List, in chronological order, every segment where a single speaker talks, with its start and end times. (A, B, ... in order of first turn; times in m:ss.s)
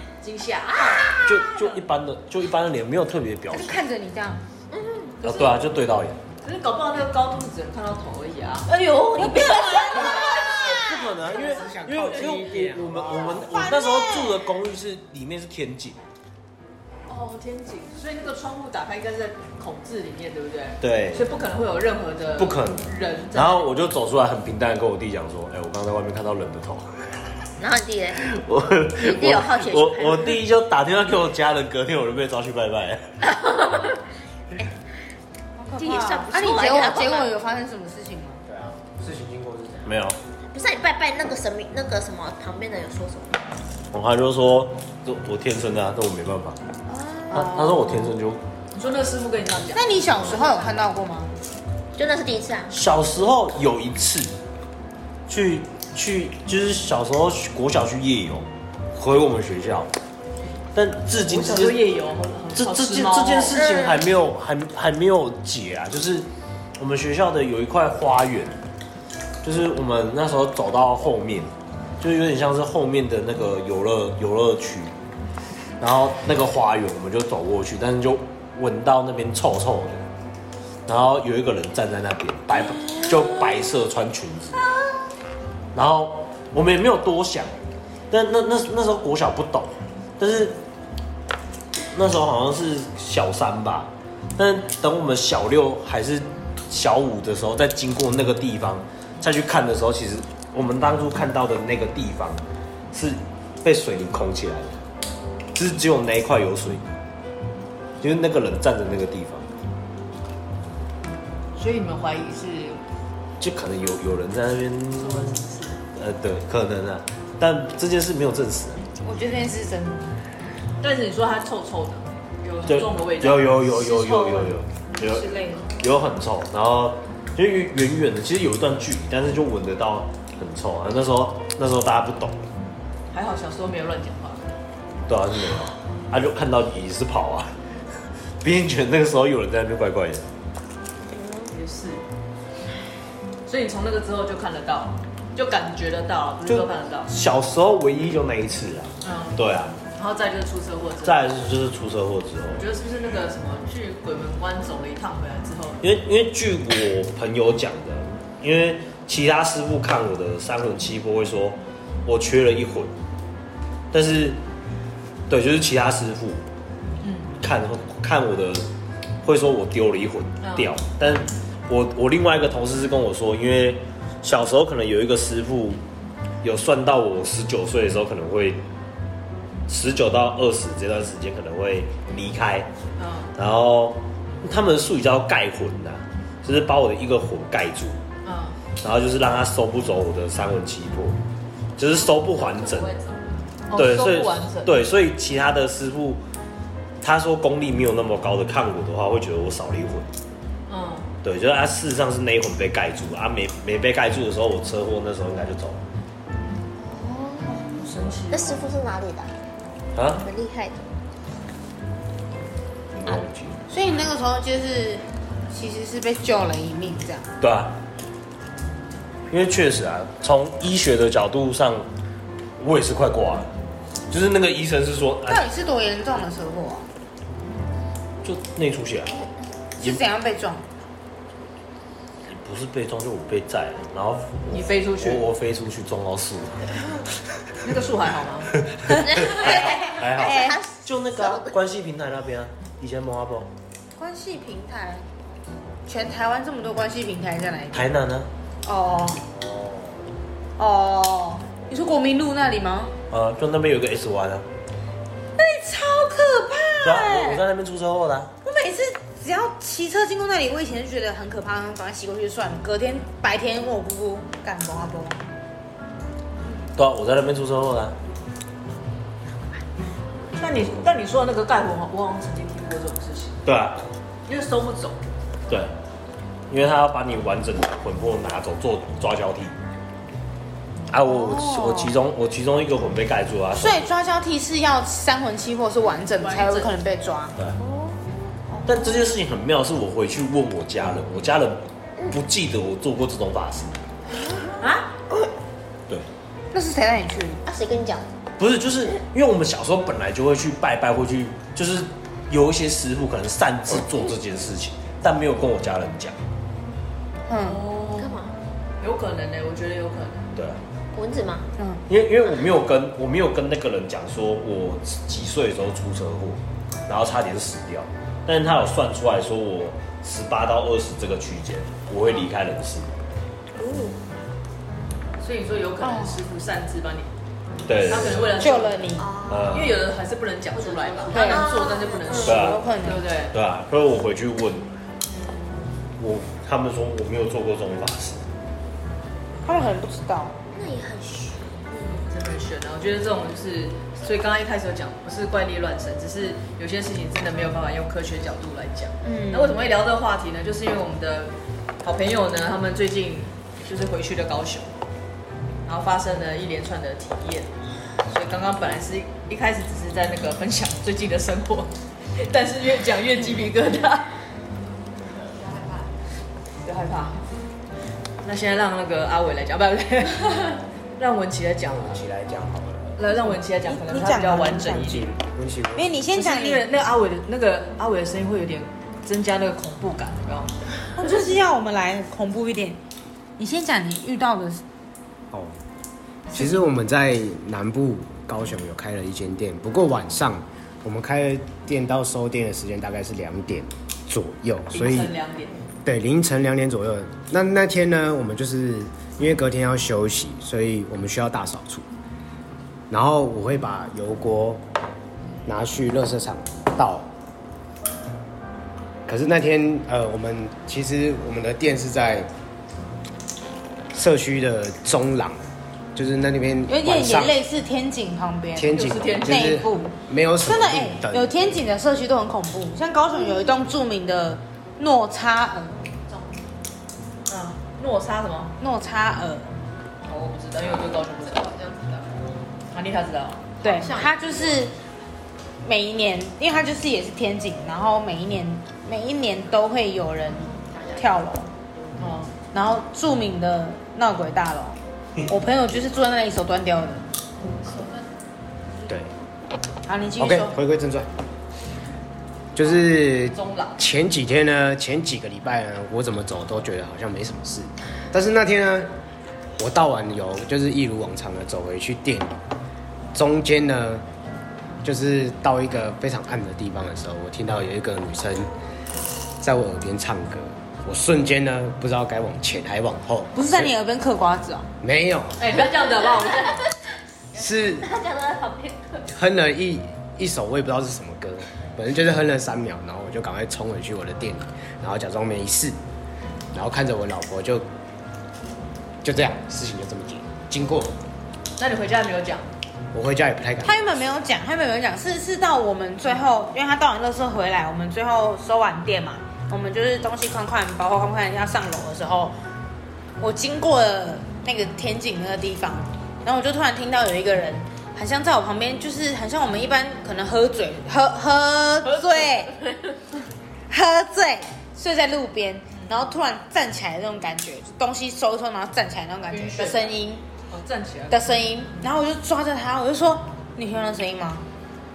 0:00.2-0:01.2 A
0:00.8-0:01.5 B
0:01.2-0:03.8 C
0:03.5-0:04.4 D
0:04.7-0:05.2 B
0:05.2-0:05.6 E
0:05.2-0:06.2 C
0:06.4-0:08.7 E
0:08.6-0:10.9 B
0:09.1-0:10.9 D
0:10.6-0:16.0 C
0:11.0-0:13.4 F
0:12.0-0:12.8 E
0:13.3-0:14.4 D
0:17.1-0:23.7 E
0:20.8-0:21.2 C
0:22.4-0:27.0 C
0:27.6-0:28.3 B
0:28.2-0:33.2 C
0:28.9-0:30.4 B
0:33.2-0:34.0 B
0:35.6-0:38.4 D
0:35.8-0:37.3 B
0:38.4-0:39.9 F
0:39.8-0:40.2 C
0:40.5-0:43.4 B
0:43.9-0:46.6 C
0:46.9-0:48.1 D
0:47.3-0:48.4 C
0:48.7-0:50.5 E
0:49.7-0:51.3 D
0:52.0-0:52.7 B
0:52.7-0:54.3 C
0:55.3-0:59.9 C
1:00.7-1:01.8 C
1:01.2-1:03.6 E
1:02.5-1:06.3 C
1:03.5-1:04.0 B
1:06.8-1:08.6 C
1:09.4-1:14.9 C
1:15.8-1:20.0 C
1:20.9-1:24.6 C
1:25.7-1:27.5 C
1:28.1-1:30.6 C
1:31.9-1:42.4 C
1:42.9-1:44.8 C
1:45.5-1:46.9 C
1:48.0-1:49.4 C
1:51.6-1:52.8 E
1:53.4-1:55.4 C
1:55.0-1:55.8 E
1:55.9-1:58.8 C
1:59.0-2:00.2 D
2:00.8-2:03.6 E
2:02.7-2:12.4 C
2:03.7-2:05.7 D
2:13.1-2:14.5 E
2:15.1-2:17.5 C
2:18.4-2:20.2 C
2:21.1-2:21.5 B
2:21.5-2:22.0 E
2:23.4-2:27.1 E
2:26.4-2:29.8 C
2:29.0-2:31.2 E
2:31.0-2:32.6 C
2:32.5-2:35.8 E
2:35.8-2:42.9 C
2:43.9-2:44.4 C
2:45.3-2:46.4 C
2:47.0-2:47.3 E
2:47.4-2:48.7 C
2:49.2-2:55.8 C
2:50.4-2:50.7 E
2:56.4-2:58.6 C
2:59.7-3:02.7 C
3:03.0-3:03.3 E
3:03.3-3:08.0 C
3:08.2-3:08.6 E
3:08.8-3:11.2 C
3:11.8-3:12.9 C
3:11.8-3:13.5 A
3:13.7-3:14.7 E
3:13.7-3:16.2 C
3:17.0-3:20.1 C
3:20.7-3:21.1 E
3:21.2-3:25.8 C
3:26.8-3:27.8 B
3:27.5-3:28.6 E
3:28.3-3:29.3 B
3:30.0-3:30.2 C
3:30.0-3:30.8 B
3:33.0-3:33.5 C
3:33.7-3:37.3 D
3:37.4-3:37.8 C
3:39.3-3:41.9 C
3:42.6-3:43.5 C
3:44.1-3:45.4 C
3:45.3-3:46.8 D
3:48.2-3:49.2 C
3:49.8-3:50.6 D
3:52.3-3:56.8 C
3:54.5-3:55.2 E
3:57.6-3:58.5 E
3:58.7-4:03.5 C
3:58.9-4:00.6 D
3:59.0-4:01.5 B
4:04.0-4:05.0 D
4:05.9-4:07.9 D
4:07.7-4:08.3 C
4:08.6-4:09.2 D
4:09.4-4:09.7 C
4:10.6-4:12.9 D
4:13.1-4:14.4 C
4:15.4-4:17.4 D
4:16.8-4:18.3 C
4:18.4-4:25.2 D
4:26.8-4:27.9 C
4:30.4-4:33.4 E
4:33.4-4:33.8 C
4:34.3-4:35.0 E
4:36.5-4:39.5 C
4:40.9-4:43.9 C
4:41.0-4:41.9 D
4:43.6-4:47.4 D
4:46.0-4:46.8 E
4:47.6-4:48.1 B
4:48.5-4:48.8 D
4:48.6-4:53.8 C
4:54.6-4:54.9 E
4:56.5-4:57.4 D
4:57.4-4:58.0 B
4:58.4-5:06.1 C
5:07.3-5:07.6 D
5:07.4-5:08.1 E
5:07.9-5:08.3 B
5:08.8-5:10.3 E
5:10.9-5:11.5 B
5:11.9-5:22.9 C
5:23.6-5:23.9 B
5:25.2-5:27.1 E
5:25.8-5:26.2 D
5:27.6-5:28.4 C
5:27.8-5:28.9 E
5:28.4-5:29.1 D
5:29.0-5:29.7 B
5:29.3-5:29.8 C
5:29.5-5:33.4 E
5:30.5-5:31.4 A
5:31.1-5:32.6 B
5:31.1-5:31.5 D
5:32.2-5:32.6 C
5:32.2-5:33.0 D
5:33.3-5:34.7 C
5:36.0-5:38.2 C
5:39.4-5:40.4 D
5:40.5-5:42.1 B
5:42.0-5:54.8 E
5:49.0-5:49.6 D
5:55.6-6:04.1 E
6:05.1-6:06.0 A
6:06.6-6:07.2 E
6:08.2-6:12.0 E
6:11.6-6:13.0 F
6:13.0-6:15.1 E
6:13.1-6:15.0 D
6:14.7-6:16.0 F
6:15.8-6:16.6 D
6:16.1-6:20.5 E
6:21.0-6:22.8 D
6:23.4-6:24.6 D
6:25.3-6:25.6 F
6:26.3-6:35.1 F
6:34.7-6:35.6 E
6:35.8-6:41.8 F
6:42.9-6:44.6 F
6:45.4-6:47.1 F
6:49.1-6:52.3 F
6:53.9-6:57.4 F
6:56.7-7:05.8 D
6:58.6-7:01.4 F
6:58.7-6:59.6 E
7:06.0-7:06.5 A
7:07.3-7:08.6 E
7:08.6-7:09.5 D
7:10.0-7:11.5 E
7:10.6-7:12.4 A
7:12.7-7:13.4 E
7:13.6-7:14.7 A
7:13.6-7:14.7 D
7:15.6-7:21.5 D
7:20.5-7:22.2 A
7:22.0-7:22.3 E
7:22.5-7:27.0 D
7:27.4-7:28.1 A
7:28.7-7:29.0 A
7:29.8-7:30.5 D
7:30.2-7:31.1 F
7:32.5-7:38.9 F
7:33.2-7:33.8 E
7:39.6-7:42.4 F
7:43.1-7:44.0 F
7:44.8-7:48.5 F
7:49.4-7:53.7 F
7:53.4-7:54.7 D
7:54.8-7:55.5 F
7:55.4-7:56.6 E
7:55.8-7:56.5 B
7:57.3-7:57.9 F
7:57.8-7:59.1 B
7:59.1-8:05.8 F
8:06.5-8:07.6 F
8:09.0-8:10.9 F
8:11.6-8:12.5 E
8:12.9-8:14.1 F
8:13.6-8:22.4 D
8:23.2-8:32.6 D
8:33.7-8:40.2 D
8:39.3-8:41.9 E
8:41.1-8:44.4 D